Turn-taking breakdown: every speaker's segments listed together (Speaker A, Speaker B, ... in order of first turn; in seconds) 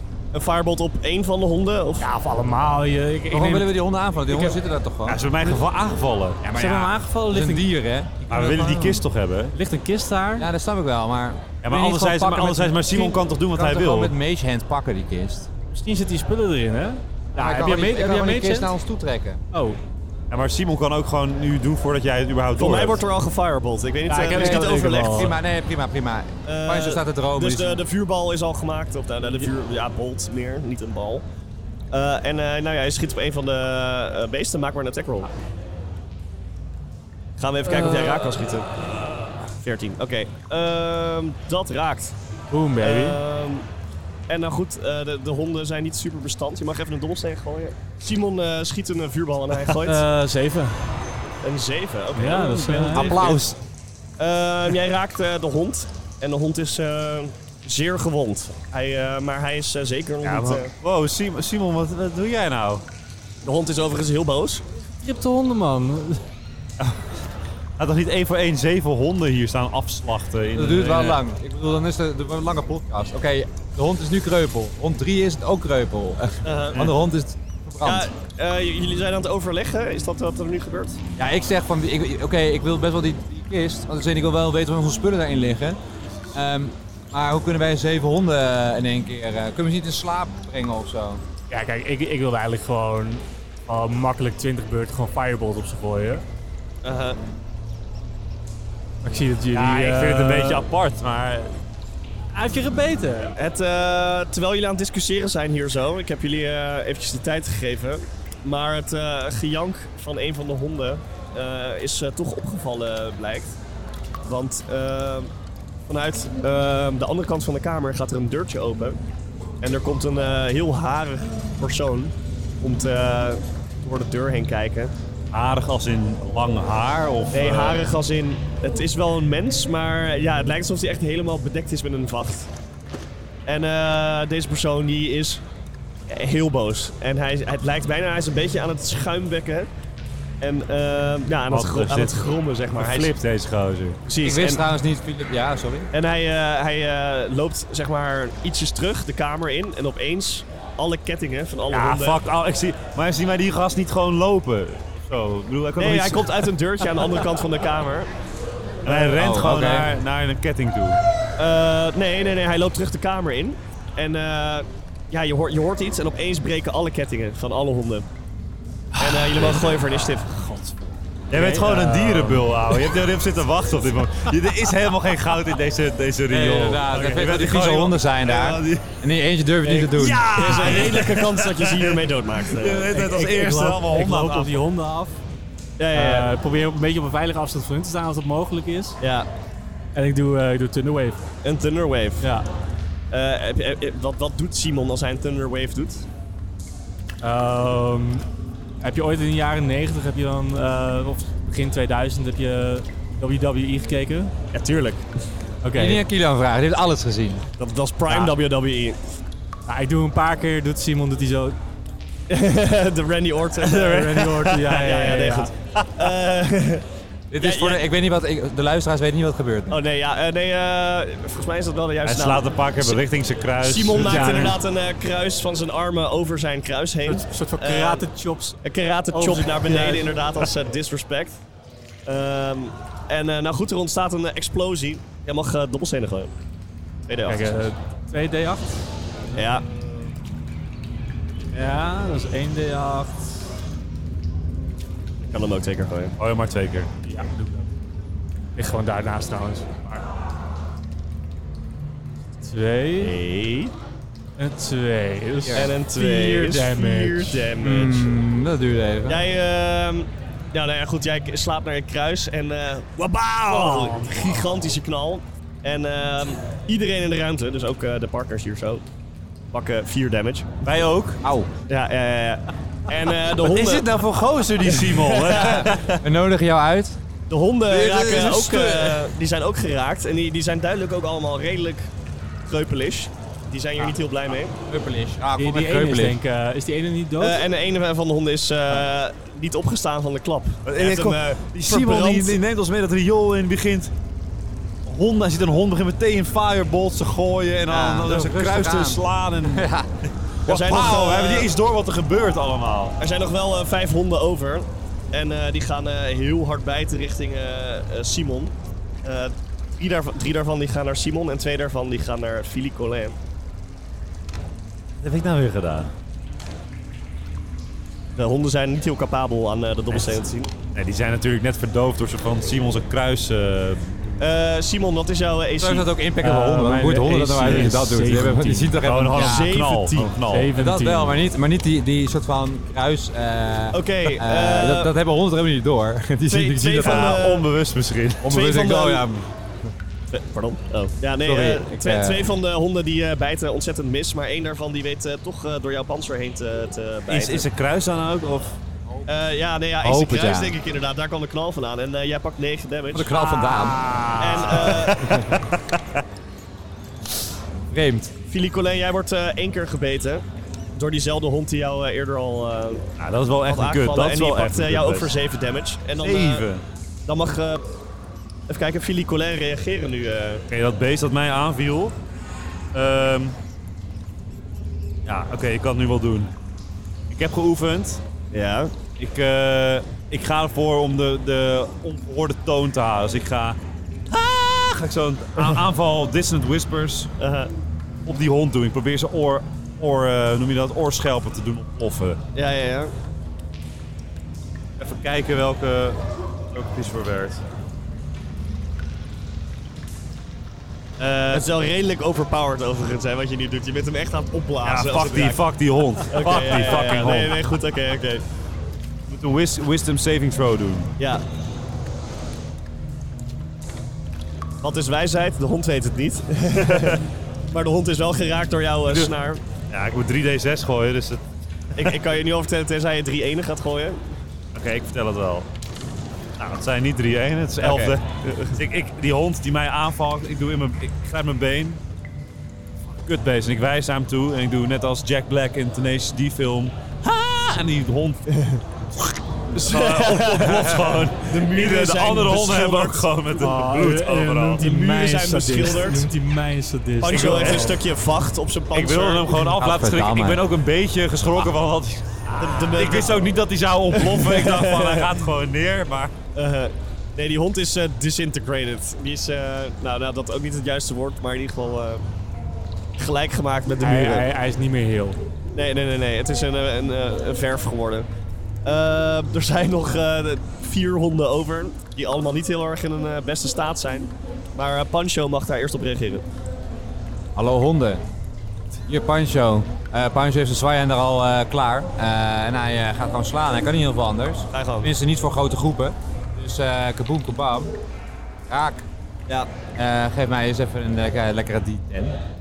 Speaker A: 0.3-2.1, 22.6-25.3, 26.4-31.3, 31.9-35.3, 37.4-38.7, 39.6-42.1, 42.8-43.7, 44.3-50.0, 51.4-53.4, 54.2-60.7, 63.4-64.6, 76.4-76.9, 77.8-81.0, 96.8-97.2, 103.4-113.6, 114.2-115.3, 115.9-119.0, 119.6-124.9, 127.3-132.5, 133.5-135.4, 136.1-139.7, 140.4-143.1, 144.1-144.6, 145.9-152.2, 155.8-158.1, 158.8-159.2, 161.4-168.1, 169.0-170.3, 178.3-178.6, 179.7-183.0, 185.8-186.3, 189.0-189.3, 191.4-192.3, 193.1-196.1, 204.5-205.1, 207.6-209.0, 212.3-216.9, 217.4-217.8, 219.7-223.0, 223.6-228.1, 228.6-231.4, 232.1-236.3, 237.1-237.6, 239.3-239.6, 245.2-246.1, 253.0-253.7, 255.5-258.1, 259.1-268.9, 269.5-270.6, 271.7-273.9, 274.7-276.0, 277.3-281.9, 282.5-284.6, 287.2-292.4, 300.5-301.5, 303.0-313.2, 318.2-320.5, 324.2-325.9, 329.1-330.2, 333.7-334.9, 336.3-337.5, 338.2-339.1, 340.1-347.5, 349.1-353.1, 354.2-355.2, 358.3-362.9, 363.4-366.5, 367.1-367.6, 368.5-370.4, 378.3-378.8, 387.2-387.5, 392.4-392.9, 401.0-405.4, 406.1-408.2, 411.0-411.2, 414.6-419.4, 421.8-424.0, 427.6-428.6, 438.3-438.6, 439.5-443.1, 444.6-446.1, 447.0-449.4, 452.4-453.4, 453.9-455.2, 456.4-462.1, 463.0-464.3, 465.5-468.1, 468.6-476.2, 484.5-484.9
Speaker B: 2.0-3.7, 4.3-4.6, 6.5-7.7, 8.3-9.0, 9.5-10.5, 15.7-18.7, 19.5-19.8, 24.1-25.4, 37.7-38.2, 42.5-43.2, 49.8-50.8, 52.1-53.3, 65.0-66.2, 91.5-96.2, 99.0-100.7, 102.3-103.4, 171.3-172.7, 182.9-185.2, 185.9-189.0, 189.9-191.2, 192.2-192.5, 197.2-198.3, 198.8-204.3, 205.6-206.0, 208.1-208.3, 209.7-211.6, 213.6-215.5, 224.1-224.5, 227.1-228.6, 229.1-230.1, 237.3-238.8, 241.5-243.3, 247.0-247.7, 248.6-250.1, 252.4-253.2, 254.4-257.5, 263.5-264.3, 285.4-287.4, 326.2-328.8, 330.2-331.2, 353.1-354.6, 443.3-447.8, 452.3-453.0, 463.8-465.2
Speaker C: 3.3-5.2, 6.4-9.0, 10.4-15.5, 17.4-19.4, 24.2-27.8, 53.0-53.5, 70.5-78.1, 81.2-85.8, 86.3-91.2, 144.2-145.9, 159.2-159.9, 176.3-180.3, 205.8-207.4, 217.3-219.8, 255.4-255.7, 257.6-259.2, 271.2-271.5, 275.3-277.0, 284.7-286.2, 297.7-299.9, 325.6-329.6, 330.6-337.2, 338.2-339.3, 341.2-342.2, 349.8-350.6, 352.9-355.4, 357.7-358.1, 449.6-450.4, 477.4-478.0, 478.9-487.7, 488.5-488.9, 489.8-492.2
Speaker D: 5.1-6.4, 8.3-9.6, 11.6-14.1, 20.3-23.0, 52.9-53.5, 60.2-62.9, 66.8-67.0, 67.8-71.2, 99.5-101.5, 125.3-127.8, 141.5-142.2, 142.8-144.0, 151.7-156.4, 158.8-161.0, 171.3-178.8, 179.8-184.6, 222.1-224.6, 246.2-246.9, 270.6-271.2, 273.4-275.9, 277.7-279.0, 290.7-293.9, 294.9-299.6, 300.4-303.0, 315.0-315.9, 320.7-324.2, 328.8-330.5, 336.8-338.3, 347.1-348.6, 354.7-355.5, 363.0-365.1, 366.0-366.6, 370.5-371.9, 372.7-373.4, 375.1-376.3, 377.1-378.0, 379.0-383.6, 384.1-387.1, 388.1-392.2, 394.8-397.4, 401.1-401.4, 404.6-407.4, 409.1-410.9, 416.6-417.0, 419.7-421.2, 424.5-425.5, 426.4-431.8, 433.0-438.3, 439.0-444.6, 447.0-447.7, 448.7-452.2, 452.7-456.1